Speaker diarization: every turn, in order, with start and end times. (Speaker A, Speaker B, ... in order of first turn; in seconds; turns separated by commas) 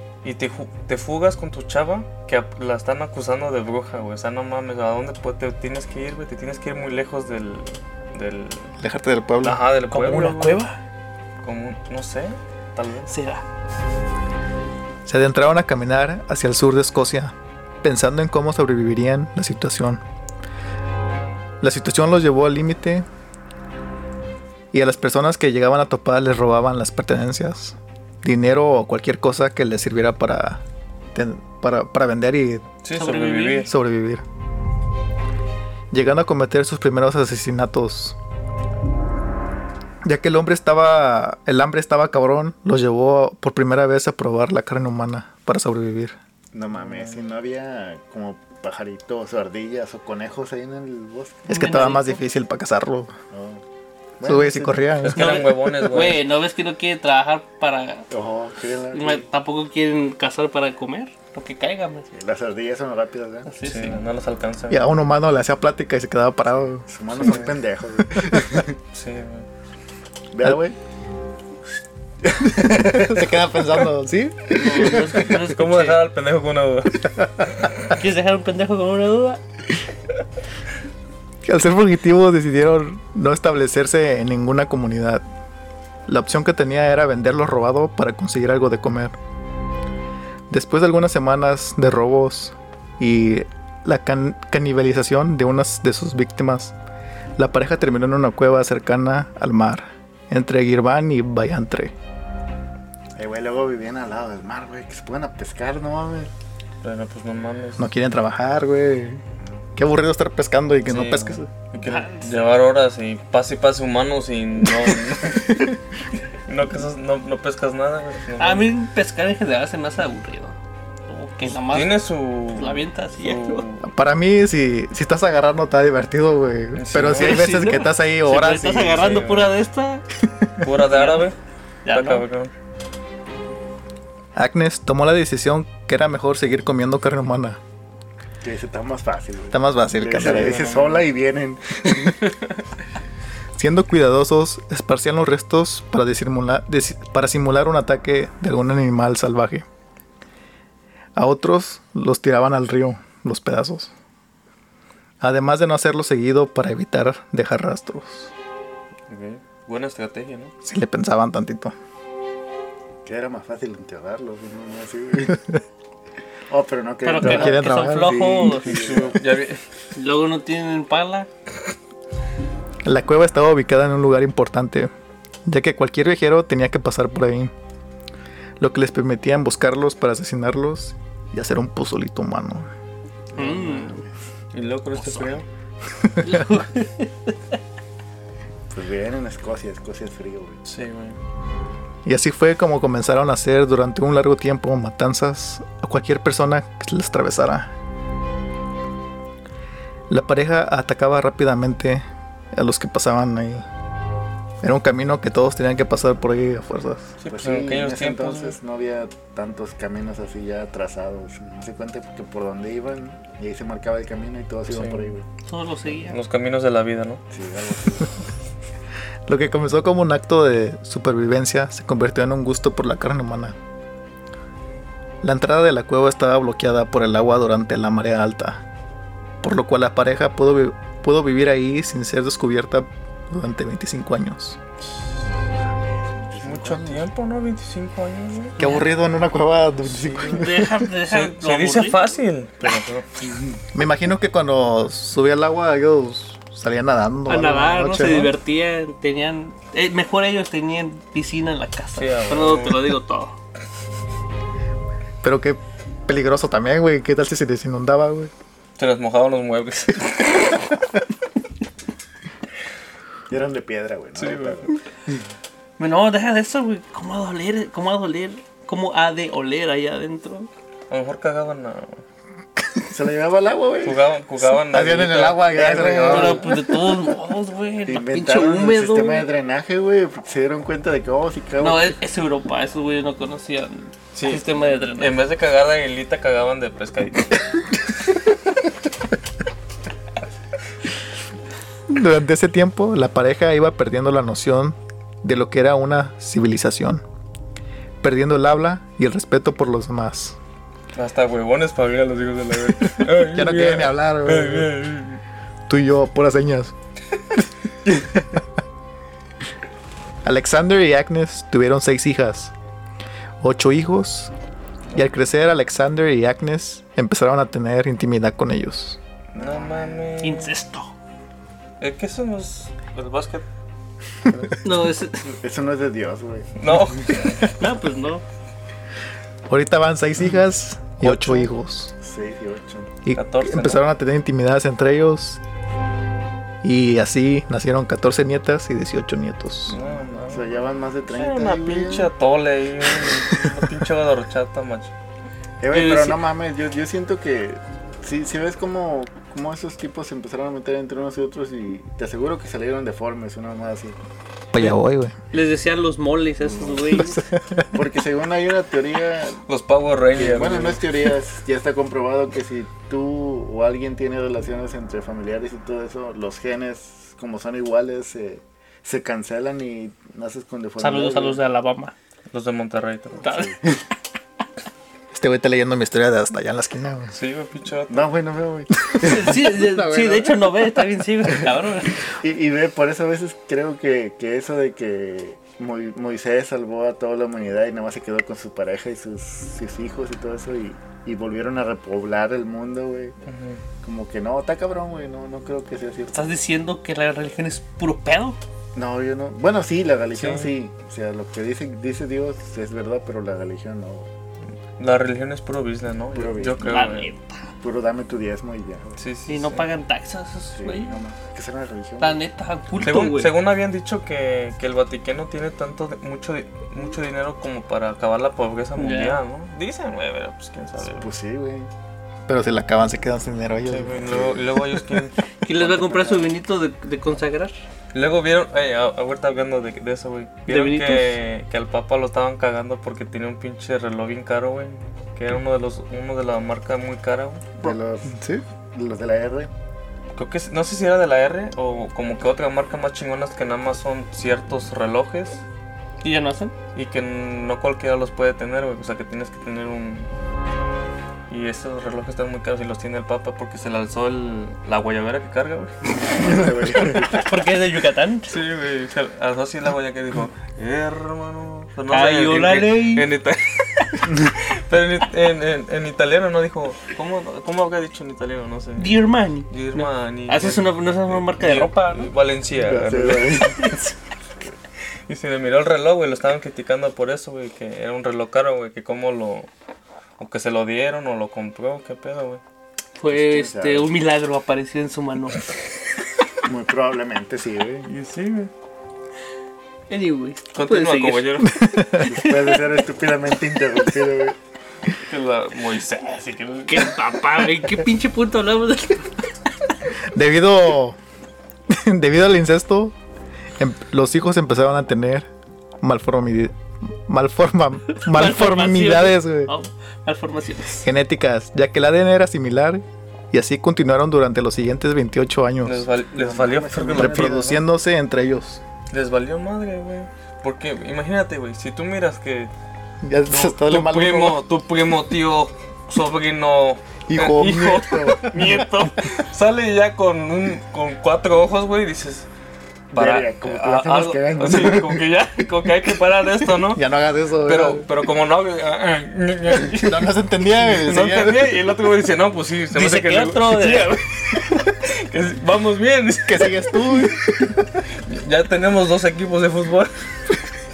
Speaker A: 0.2-8.7, Speaker B: 8.8-9.6, Speaker A: 9.4-10.6, Speaker C: 9.9-10.8, Speaker A: 11.4-13.1, Speaker C: 13.1-13.4, Speaker B: 15.1-20.0, Speaker B: 21.6-23.1, Speaker B: 24.7-30.6, Speaker B: 31.1-32.7, Speaker A: 32.8-33.7, Speaker C: 32.9-33.7, Speaker B: 33.7-34.2, Speaker B: 35.9-38.2, Speaker B: 40.0-46.2, Speaker D: 46.5-51.5, Speaker A: 46.8-47.3, Speaker C: 51.5-52.2, Speaker B: 51.5-53.1, Speaker D: 53.3-53.6, Speaker D: 54.2-54.9, Speaker B: 54.2-55.4, Speaker A: 55.0-56.2, Speaker C: 55.1-58.1, Speaker D: 58.1-59.2, Speaker C: 58.9-62.1, Speaker D: 62.1-63.5, Speaker C: 63.5-64.0, Speaker A: 63.6-64.9, Speaker B: 64.7-67.4, Speaker D: 66.9-68.8, Speaker A: 67.2-67.5, Speaker B: 68.2-68.6, Speaker A: 68.9-69.5, Speaker D: 70.3-70.8, Speaker D: 72.2-73.2, Speaker B: 72.6-75.3, Speaker C: 74.5-76.0, Speaker A: 75.3-77.2, Speaker C: 77.9-79.4, Speaker B: 81.5-85.2, Speaker B: 86.1-89.1, Speaker B: 90.5-96.8, Speaker B: 97.4-101.9, Speaker D: 103.2-106.3, Speaker A: 106.8-107.9, Speaker B: 107.8-109.2, Speaker B: 109.8-111.5, Speaker A: 110.9-115.7, Speaker C: 111.8-112.3, Speaker A: 116.5-118.7, Speaker C: 118.4-122.0, Speaker A: 121.5-123.9, Speaker C: 122.5-123.7, Speaker B: 123.8-129.1, Speaker A: 126.8-127.5, Speaker C: 127.1-130.0, Speaker A: 128.9-129.6, Speaker A: 130.6-131.4, Speaker C: 130.9-131.3, Speaker C: 131.8-132.2, Speaker A: 131.9-132.5, Speaker B: 134.3-137.6, Speaker D: 138.4-142.2, Speaker B: 139.5-140.7, Speaker A: 140.2-141.1, Speaker B: 143.6-149.7, Speaker B: 151.2-153.9, Speaker B: 155.2-158.3, Speaker A: 159.1-160.5, Speaker B: 160.6-161.7, Speaker D: 163.1-165.6, Speaker D: 166.5-169.2, Speaker C: 167.0-168.8, Speaker B: 167.2-168.3, Speaker A: 168.6-169.6, Speaker C: 169.9-171.3, Speaker B: 172.8-174.9, Speaker B: 175.5-177.5, Speaker B: 178.6-182.7, Speaker D: 183.3-184.1, Speaker C: 183.4-184.0, Speaker A: 184.5-185.5, Speaker C: 185.0-185.3, Speaker B: 186.0-186.4, Speaker C: 186.2-187.3, Speaker D: 188.7-190.6, Speaker A: 190.7-191.2, Speaker B: 192.1-197.7, Speaker B: 200.1-203.7, Speaker B: 204.6-207.1, Speaker A: 207.2-208.6, Speaker D: 207.3-215.2, Speaker A: 214.7-215.1, Speaker C: 215.4-216.2, Speaker A: 216.1-217.2, Speaker D: 217.3-218.2, Speaker B: 219.3-223.6, Speaker B: 225.2-228.6, Speaker B: 229.4-234.6, Speaker D: 235.9-237.1, Speaker A: 236.4-238.6, Speaker B: 238.6-240.8, Speaker C: 238.6-238.8, Speaker C: 240.2-242.0, Speaker A: 241.1-243.1, Speaker B: 243.7-248.3, Speaker C: 247.3-253.4, Speaker A: 251.9-252.9, Speaker B: 255.2-258.3, Speaker A: 258.8-260.5, Speaker D: 263.3-264.8, Speaker A: 264.2-264.7, Speaker C: 265.8-270.5, Speaker A: 270.9-272.0, Speaker D: 272.9-274.0, Speaker A: 273.8-276.4, Speaker B: 274.4-276.6, Speaker D: 275.5-276.4, Speaker C: 276.0-279.3, Speaker D: 277.9-282.0, Speaker C: 281.6-285.2, Speaker A: 284.1-287.5, Speaker B: 291.9-297.0, Speaker B: 298.0-300.4, Speaker A: 300.9-305.2, Speaker B: 303.1-304.7, Speaker B: 305.7-306.7, Speaker B: 308.2-308.4, Speaker B: 310.2-312.5, Speaker B: 313.4-314.3, Speaker B: 314.9-319.0, Speaker A: 319.3-320.5, Speaker D: 319.4-320.0, Speaker C: 320.2-320.9, Speaker A: 321.8-323.4, Speaker C: 324.6-325.3, Speaker D: 325.3-327.2, Speaker A: 326.6-327.5, Speaker C: 327.6-328.2, Speaker B: 329.5-331.9, Speaker D: 332.0-332.9, Speaker B: 333.1-335.4, Speaker A: 333.1-333.8, Speaker B: 336.6-339.8, Speaker D: 339.7-342.1, Speaker A: 339.7-344.9, Speaker D: 345.6-354.0, Speaker C: 345.7-346.2, Speaker B: 354.5-355.1, Speaker C: 355.3-357.3, Speaker D: 356.4-357.2, Speaker B: 357.0-357.7, Speaker D: 357.7-359.4, Speaker A: 359.5-360.8, Speaker D: 360.1-371.4, Speaker C: 370.8-371.9, Speaker A: 372.3-373.3, Speaker C: 373.2-373.5, Speaker D: 373.2-373.8, Speaker B: 375.1-377.1, Speaker A: 377.1-378.1, Speaker D: 377.9-380.4, Speaker C: 379.0-382.0, Speaker D: 382.1-393.2, Speaker A: 393.3-393.6, Speaker D: 393.8-396.3, Speaker C: 396.1-398.4, Speaker D: 398.8-404.1, Speaker A: 400.1-400.5, Speaker A: 404.8-407.1, Speaker D: 406.1-406.6, Speaker C: 406.6-407.5, Speaker D: 407.6-409.0, Speaker A: 409.0-409.7, Speaker C: 409.3-411.0, Speaker D: 410.5-412.2, Speaker C: 412.0-413.3, Speaker A: 412.8-421.1, Speaker C: 418.8-419.2, Speaker D: 420.8-421.7, Speaker B: 422.3-424.2, Speaker A: 423.7-425.2, Speaker D: 424.1-424.4, Speaker C: 425.4-427.5, Speaker D: 425.5-426.2, Speaker A: 427.9-437.7, Speaker C: 430.5-431.1, Speaker D: 437.6-439.5, Speaker A: 440.2-445.4, Speaker C: 446.0-446.5, Speaker A: 446.7-450.1, Speaker A: 451.3-457.2, Speaker D: 456.1-457.3, Speaker C: 457.1-458.3, Speaker A: 458.3-473.8, Speaker C: 461.9-463.1, Speaker C: 468.8-472.1, Speaker D: 472.5-473.8, Speaker A: 475.1-479.5, Speaker A: 480.2-482.4, Speaker C: 483.0-485.5, Speaker D: 483.1-483.9, Speaker D: 486.4-487.9, Speaker A: 487.9-488.5, Speaker C: 489.9-492.6, Speaker A: 490.5-491.6, Speaker B: 491.5-492.1, Speaker D: 492.0-494.4, Speaker A: 495.0-497.1, Speaker C: 496.7-499.3, Speaker B: 500.1-501.0, Speaker B: 501.7-502.9, Speaker B: 503.6-505.3, Speaker B: 505.8-509.5, Speaker C: 508.0-510.9, Speaker B: 510.8-515.9, Speaker A: 515.6-517.6, Speaker D: 516.1-517.5, Speaker B: 516.9-518.6, Speaker A: 518.9-522.5, Speaker B: 523.0-524.4, Speaker A: 523.3-532.3, Speaker B: 527.1-528.5, Speaker D: 527.4-528.4, Speaker A: 532.9-536.8, Speaker D: 533.0-535.1, Speaker B: 536.7-537.9, Speaker A: 537.5-540.1, Speaker B: 539.7-541.6, Speaker A: 540.6-547.2, Speaker C: 542.7-544.0, Speaker B: 546.3-547.6, Speaker A: 547.9-549.9